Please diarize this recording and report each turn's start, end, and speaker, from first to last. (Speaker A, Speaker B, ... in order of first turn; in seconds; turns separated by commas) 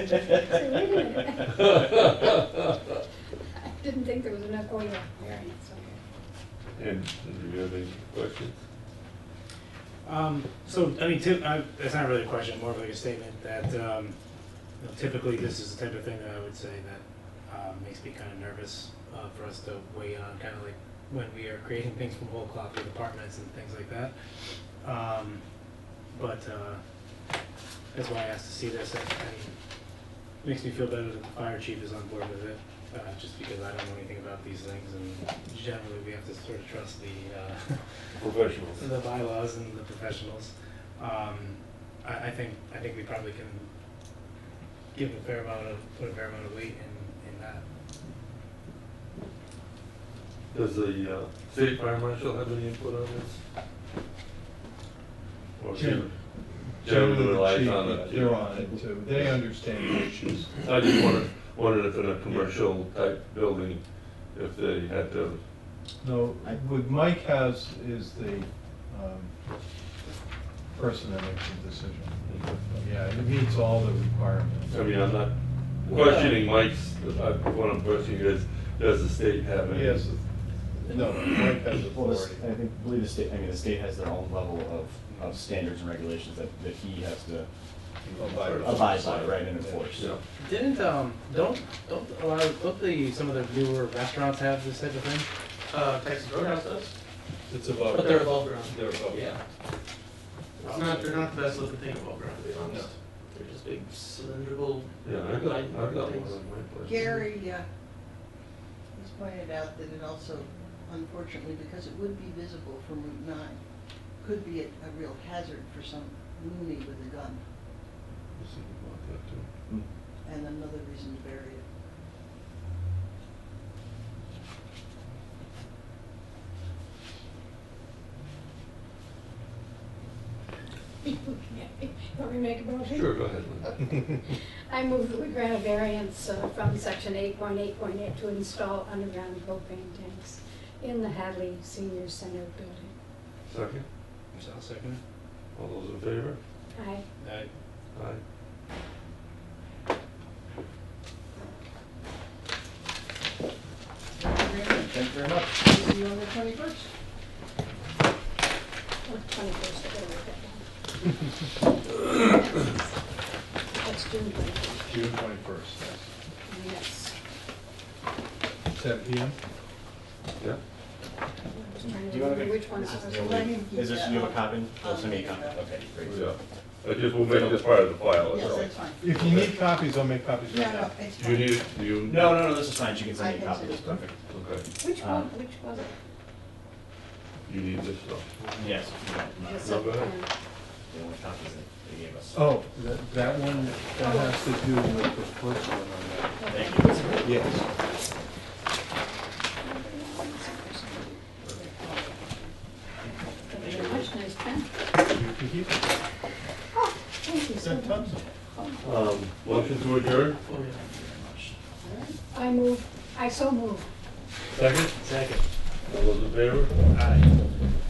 Speaker A: 0.4-1.8, Speaker B: 1.6-2.2, Speaker A: 3.6-6.0, Speaker B: 6.8-8.6, Speaker C: 10.0-14.2, Speaker C: 14.8-24.1, Speaker C: 24.8-25.4, Speaker C: 26.1-26.8, Speaker C: 27.9-29.5, Speaker C: 30.4-37.8, Speaker B: 38.2-38.8, Speaker C: 38.8-43.7, Speaker C: 44.9-47.6, Speaker B: 50.5-53.4, Speaker B: 55.6-56.1, Speaker D: 55.7-56.1, Speaker D: 56.8-60.5, Speaker B: 56.8-59.3, Speaker B: 60.6-63.8, Speaker D: 62.3-62.5, Speaker B: 64.3-65.4, Speaker D: 66.0-69.3, Speaker D: 70.7-72.1, Speaker B: 72.2-72.6, Speaker D: 72.7-74.8, Speaker B: 74.7-75.3, Speaker B: 75.8-80.1, Speaker D: 79.6-80.2, Speaker D: 80.8-82.5, Speaker E: 81.9-87.5, Speaker B: 88.0-89.4, Speaker D: 88.1-90.1, Speaker E: 88.6-90.1, Speaker B: 89.9-90.2, Speaker C: 90.4-95.3, Speaker F: 95.7-96.9, Speaker D: 97.5-99.4, Speaker F: 97.9-99.4, Speaker F: 100.6-106.3, Speaker B: 100.6-101.1, Speaker D: 102.6-102.9, Speaker B: 105.0-107.1, Speaker G: 106.8-107.7, Speaker G: 108.9-113.6, Speaker G: 114.2-117.5, Speaker B: 118.3-119.5, Speaker G: 120.2-121.6, Speaker A: 131.0-142.9, Speaker B: 132.9-133.9, Speaker B: 143.5-143.8, Speaker C: 144.3-145.0, Speaker B: 145.5-146.4, Speaker A: 146.7-147.0, Speaker C: 147.2-147.5, Speaker B: 147.9-148.2, Speaker G: 154.2-154.8, Speaker E: 154.6-155.7, Speaker G: 155.6-156.9, Speaker A: 159.0-162.9, Speaker A: 163.8-164.8, Speaker D: 164.8-166.1, Speaker A: 166.4-167.1, Speaker D: 168.7-169.4, Speaker A: 171.5-173.6, Speaker E: 171.8-176.3, Speaker G: 172.8-175.8, Speaker B: 176.0-179.5, Speaker D: 177.3-177.7, Speaker G: 178.1-179.1, Speaker D: 179.0-180.9, Speaker G: 180.5-181.7, Speaker B: 181.2-182.5, Speaker E: 182.0-184.2, Speaker G: 183.1-184.0, Speaker B: 184.3-184.7, Speaker A: 184.8-185.9, Speaker E: 185.0-185.3, Speaker B: 187.5-188.3, Speaker E: 188.5-189.8, Speaker A: 189.4-190.3, Speaker B: 189.6-190.1, Speaker E: 190.9-192.6, Speaker D: 192.3-196.5, Speaker E: 193.2-194.0, Speaker A: 194.0-195.2, Speaker A: 196.4-197.4, Speaker E: 196.5-197.2, Speaker D: 197.2-197.7, Speaker A: 199.6-201.2, Speaker G: 201.5-202.5, Speaker A: 203.5-204.7, Speaker E: 203.7-204.0, Speaker D: 205.0-205.9, Speaker A: 206.7-208.8, Speaker G: 207.6-208.1, Speaker E: 207.9-208.2, Speaker B: 208.8-210.4, Speaker E: 210.5-211.5, Speaker F: 210.5-210.8, Speaker G: 211.8-212.1, Speaker A: 212.2-213.9, Speaker B: 214.5-214.9, Speaker C: 214.9-215.4, Speaker B: 215.9-216.7, Speaker C: 216.9-217.3